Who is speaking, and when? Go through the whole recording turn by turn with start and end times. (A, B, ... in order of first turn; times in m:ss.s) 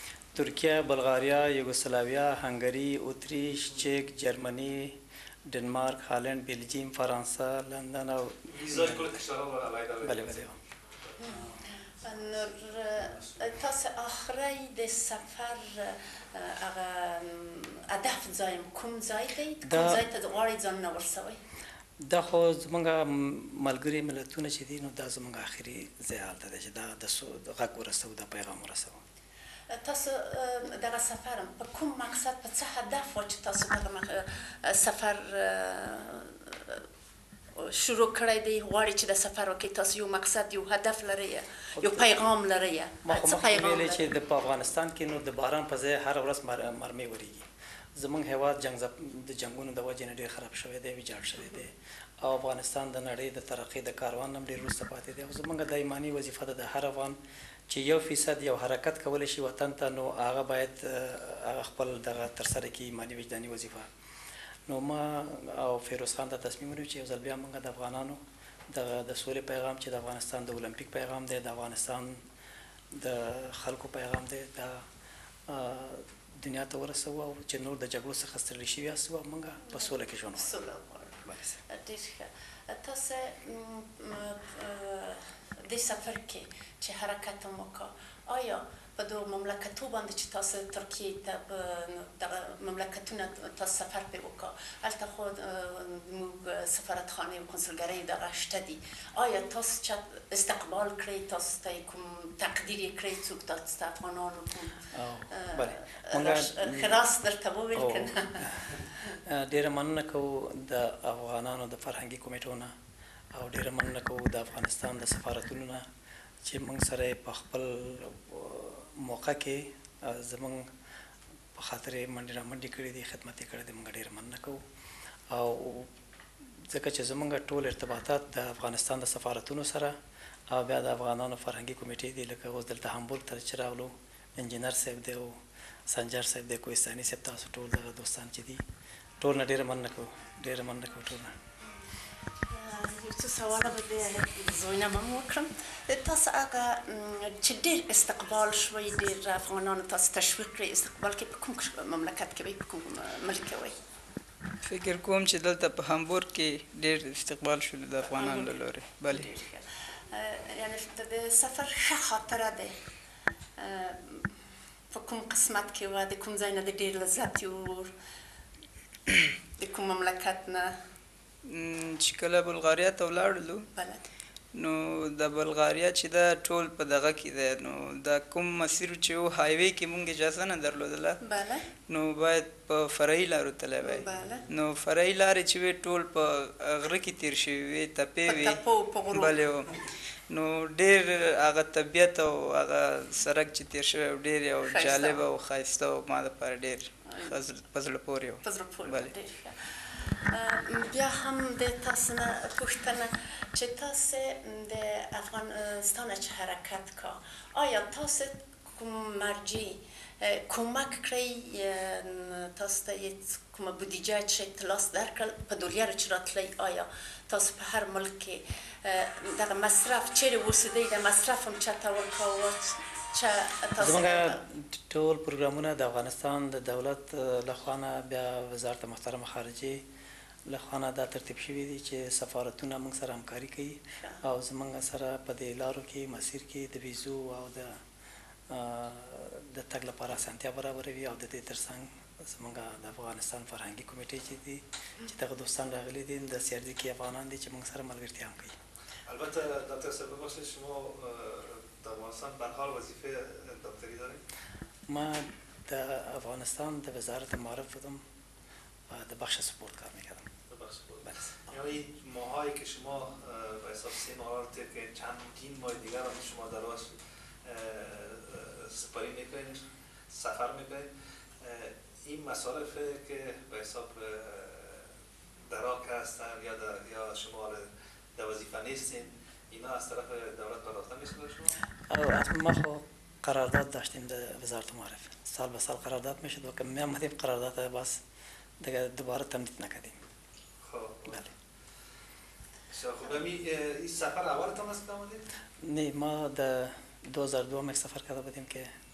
0:00.3-0:09.2 A
0:08.5-0:10.5 B
0:10.0-0:10.6 A
0:11.2-0:21.4 C
0:19.7-0:20.0 A
0:22.0-0:29.0 A
0:29.7-0:36.8 C
0:37.6-0:44.1 C
0:41.8-0:42.1 A
0:43.0-0:57.2 A
0:57.7-1:03.9 A
1:04.7-1:12.2 A
1:12.9-1:14.8 A
1:15.5-1:20.5 A
1:19.6-1:48.5 C
1:21.2-1:21.6 A
1:44.9-1:47.0 A
1:47.8-1:48.6 A
1:49.3-1:52.7 A
1:53.3-1:55.8 A
1:56.4-2:00.7 A
2:01.6-2:04.6 A
2:05.3-2:05.9 A
2:06.7-2:10.0 A
2:10.5-2:18.6 A
2:19.2-2:21.3 A
2:22.5-2:33.8 C
2:34.6-2:39.3 D
2:38.0-2:42.7 C
2:43.6-2:44.3 C
2:44.9-2:47.9 C
2:49.6-2:50.8 C
2:51.4-2:53.7 D
2:53.8-2:54.1 C
2:54.5-3:01.2 D
3:01.2-3:01.7 C
3:01.9-3:08.6 D
3:03.8-3:04.4 C
3:08.3-3:09.4 C
3:09.1-3:09.7 D
3:10.3-3:19.1 D
3:14.6-3:15.2 C
3:17.1-3:17.3 C
3:18.4-3:44.4 C
3:43.8-3:49.8 A
3:50.5-3:57.8 A
3:58.5-4:08.6 A
4:09.1-4:14.2 B
4:14.9-4:18.0 A
4:18.9-4:20.3 A
4:20.5-4:41.6 B
4:21.1-4:21.4 A
4:41.9-4:48.0 A
4:48.6-4:50.0 A
4:50.6-4:51.3 B
4:52.7-4:55.2 B
4:55.6-4:58.7 A